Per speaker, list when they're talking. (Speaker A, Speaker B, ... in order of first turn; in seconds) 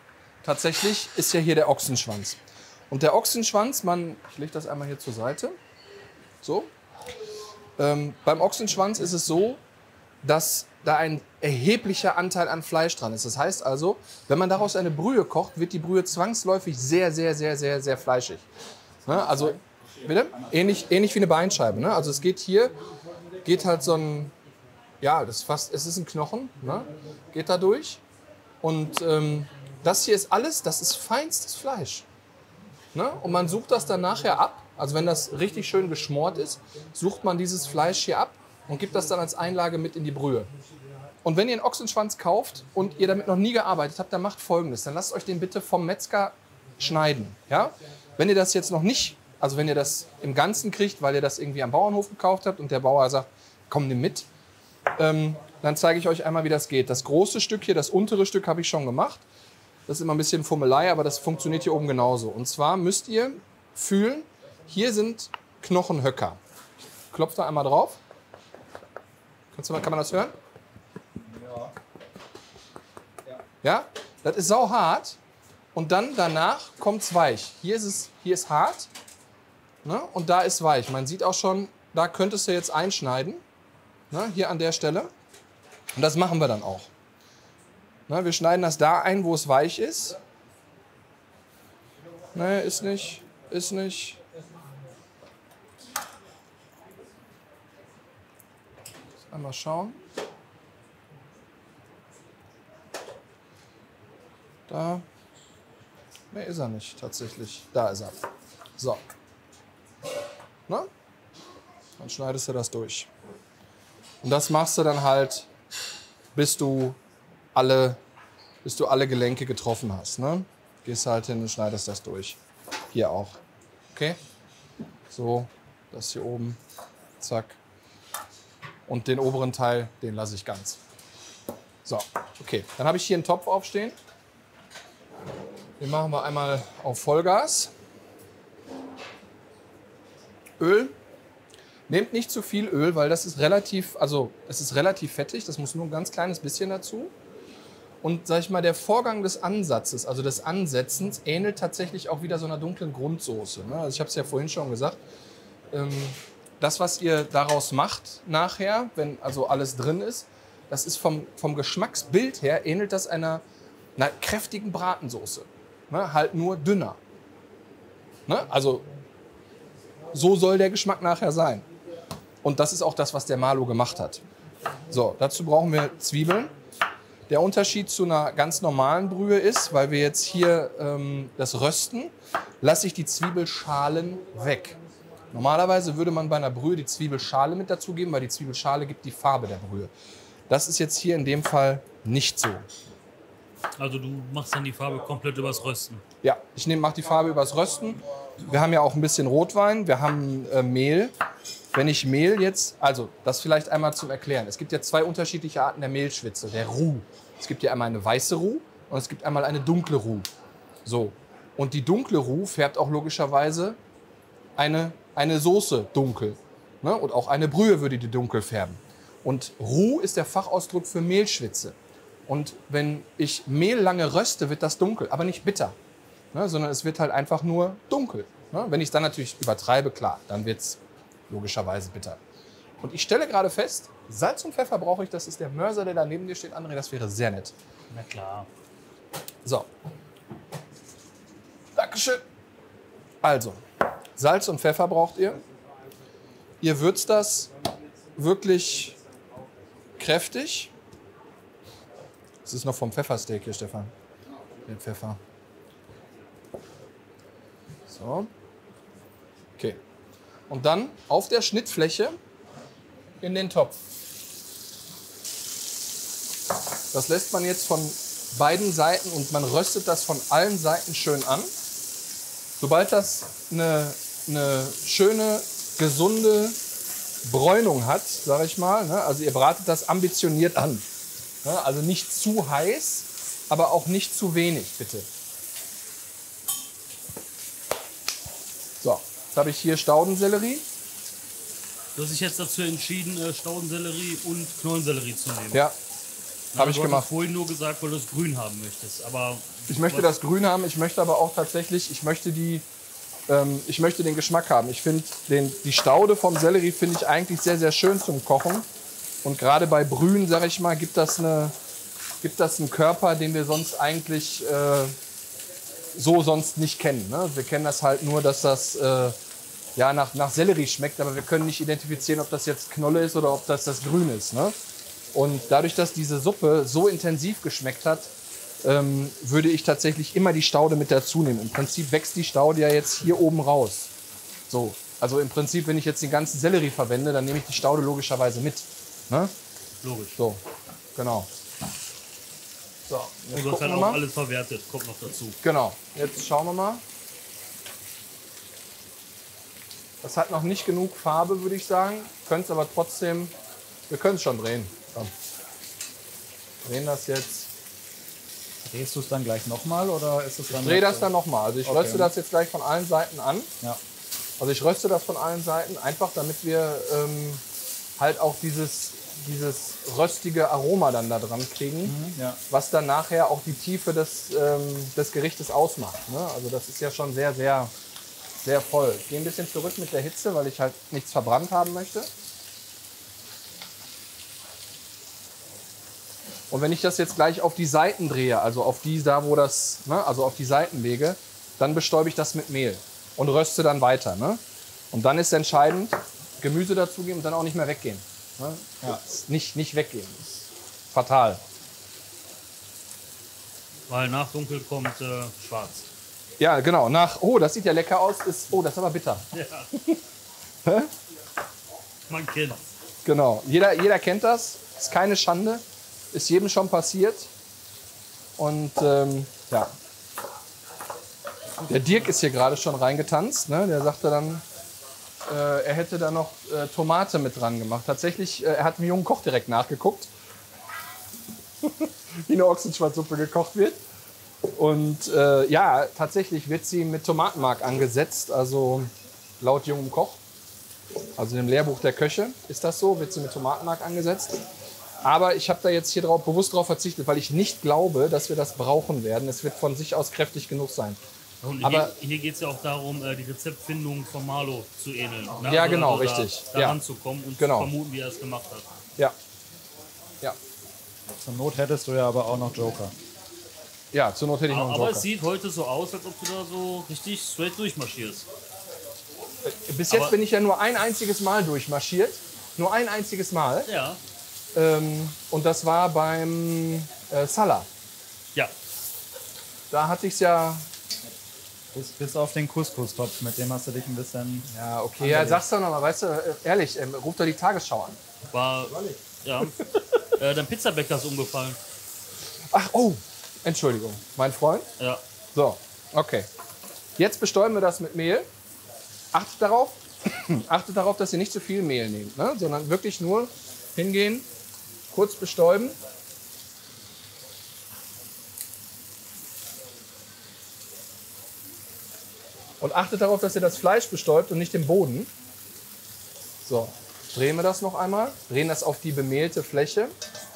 Speaker A: 0.4-5.5, 6.4-6.7, 7.8-9.6, 10.2-18.5, 19.1-22.8, 23.4-24.3, 25.0-28.0, 28.6-32.0, 32.9-40.5, 41.2-54.3, 55.0-59.2, 59.9-66.4, 67.1-68.0, 69.5-70.3, 73.6-75.2, 75.7-78.9, 79.8-83.4, 84.1-85.1, 85.9-86.9, 88.1-90.2, 92.3-94.2, 99.3-100.0, 104.7-105.0, 106.3-108.2, 108.8-109.0, 112.0-113.1, 114.2-115.5, 116.3-117.0, 117.5-118.0, 118.6-122.4, 122.9-123.4, 123.9-124.2, 125.1-126.6, 127.2-127.6, 128.9-130.8, 131.8-133.9, 135.8-137.7, 140.6-140.9, 141.9-147.1, 148.0-155.0, 155.7-163.4, 164.0-167.0, 168.3-168.8, 170.1-171.7, 172.4-174.2, 174.9-176.5, 177.3-184.8, 185.3-189.9, 190.5-192.7, 196.2-201.1, 201.7-210.3, 210.8-213.8, 214.6-221.7, 222.3-225.8, 226.3-232.2, 232.8-237.5, 241.7-242.2, 243.2-243.6, 244.2-245.4, 246.6-247.5, 248.2-249.0, 249.9-250.7, 252.4-253.9, 254.7-255.2, 257.9-258.3, 260.5-262.2, 263.2-263.8, 266.9-271.5, 272.6-276.6, 277.2-280.8, 281.4-285.1, 288.8-290.6, 296.5-297.1, 299.7-302.6, 303.3-308.7, 309.2-311.5, 312.2-314.9, 315.9-319.2, 319.8-324.5, 325.1-328.1, 328.6-333.9, 334.5-339.3, 340.9-341.3, 342.9-344.0, 345.4-346.8, 350.0-353.3, 353.9-355.1, 356.6-357.5, 360.5-363.5, 364.4-367.4, 368.0-371.9, 372.5-377.7, 378.4-382.1, 386.5-394.4, 394.9-401.4, 406.4-410.0, 410.6-410.9, 413.0-417.3, 418.4-419.7, 421.6-424.4, 425.2-430.1, 431.6-433.8, 434.5-440.2, 441.2-444.4, 445.0-451.0, 451.6-451.9, 455.4-456.8, 457.4-457.7, 463.9-465.1, 469.4-473.7, 474.5-477.7, 479.7-480.7, 484.5-488.0, 492.5-494.7, 495.3-496.3, 497.0-498.3, 499.1-504.3, 504.9-505.8, 512.6-515.1, 516.4-519.9
Speaker B: 19.1-19.6, 71.2-71.7, 358.6-361.1, 361.6-362.1, 371.8-372.4, 461.1-462.9, 481.7-484.5, 485.0-485.4
Speaker C: 193.8-196.0, 237.9-238.5, 291.9-295.6, 296.5-300.1, 339.8-340.1, 343.3-345.4, 403.9-405.9, 409.3-409.7, 412.1-412.6, 451.4-458.7, 464.5-468.3, 473.7-474.0, 488.3-489.6, 490.1-491.6